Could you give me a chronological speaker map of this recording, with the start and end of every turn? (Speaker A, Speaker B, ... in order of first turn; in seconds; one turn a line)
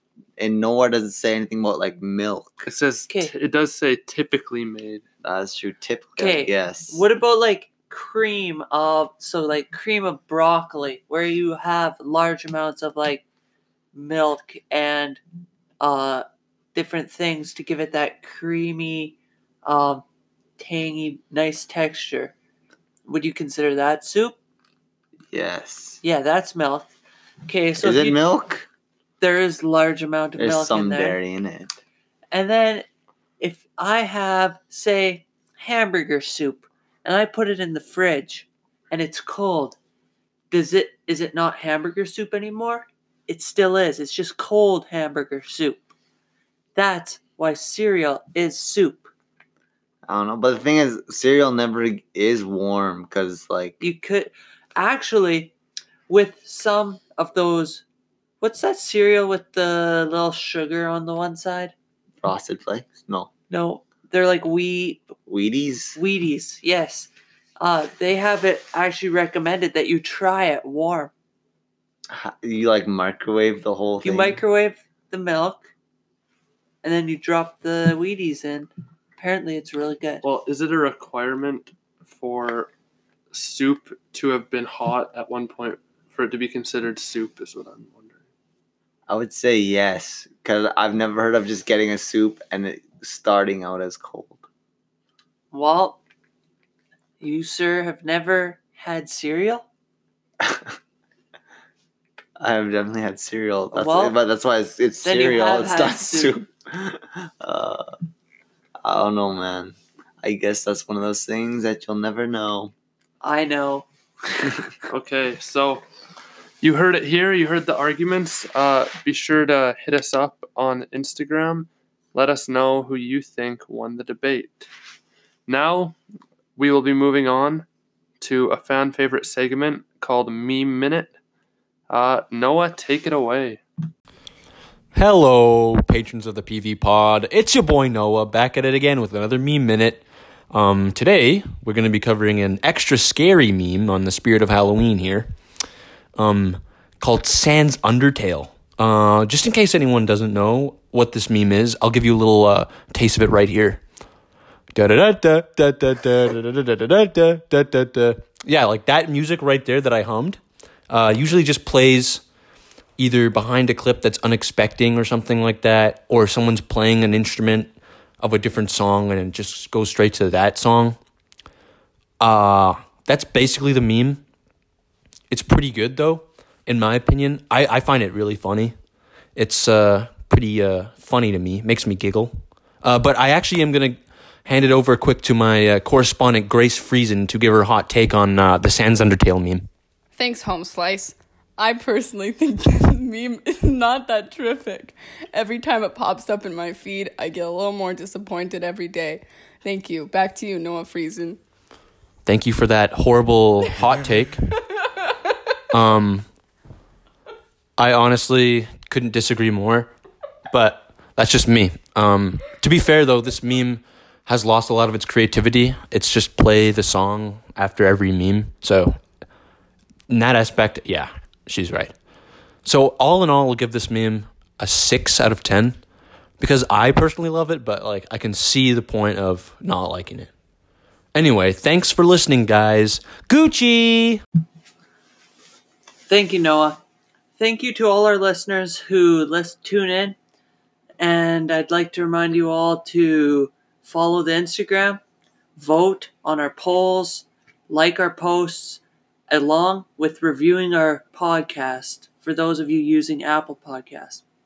Speaker A: 0.4-2.7
Speaker B: 2.6-5.0
Speaker A: 5.2-7.0
Speaker C: 6.2-13.2
Speaker C: 13.9-15.2
Speaker C: 15.8-20.0
Speaker C: 20.6-22.3
Speaker C: 23.1-24.4
Speaker A: 25.3-26.0
Speaker C: 26.0-26.9
Speaker C: 27.4-28.2
Speaker A: 27.8-28.7
Speaker C: 29.2-31.2
Speaker A: 30.4-31.7
Speaker C: 32.3-32.8
Speaker C: 33.4-39.8
Speaker C: 40.5-45.9
Speaker C: 46.7-49.1
Speaker A: 50.1-53.8
Speaker C: 53.8-55.5
Speaker C: 56.1-57.8
Speaker C: 58.4-61.7
Speaker A: 62.2-63.3
Speaker C: 63.5-65.1
Speaker A: 65.3-66.0
Speaker C: 66.0-71.1
Speaker A: 72.1-74.4
Speaker C: 74.0-75.7
Speaker C: 76.8-80.2
Speaker B: 80.2-82.7
Speaker B: 83.3-88.2
Speaker A: 89.1-94.4
Speaker C: 95.5-96.0
Speaker C: 97.2-99.7
Speaker A: 100.4-100.7
Speaker A: 102.4-107.9
Speaker C: 103.7-104.2
Speaker C: 105.0-106.4
Speaker A: 108.8-112.7
Speaker C: 113.2-113.9
Speaker B: 114.9-115.8
Speaker B: 116.6-124.7
Speaker B: 125.5-126.0
Speaker B: 126.5-127.7
Speaker B: 128.2-131.1
Speaker B: 131.9-133.6
Speaker D: 134.9-145.3
Speaker D: 146.2-153.8
Speaker D: 154.7-162.2
Speaker D: 163.0-171.0
Speaker D: 172.2-174.2
Speaker D: 175.3-178.7
Speaker D: 179.3-189.7
Speaker E: 190.2-201.4
Speaker D: 202.2-204.4
Speaker D: 205.7-206.3
Speaker D: 207.8-209.9
Speaker D: 210.5-219.0
Speaker D: 220.1-222.0
Speaker D: 222.6-225.8
Speaker D: 226.4-230.3
Speaker D: 231.1-234.2
Speaker C: 236.1-236.8
Speaker C: 237.4-240.2
Speaker C: 241.0-245.0
Speaker C: 245.6-254.2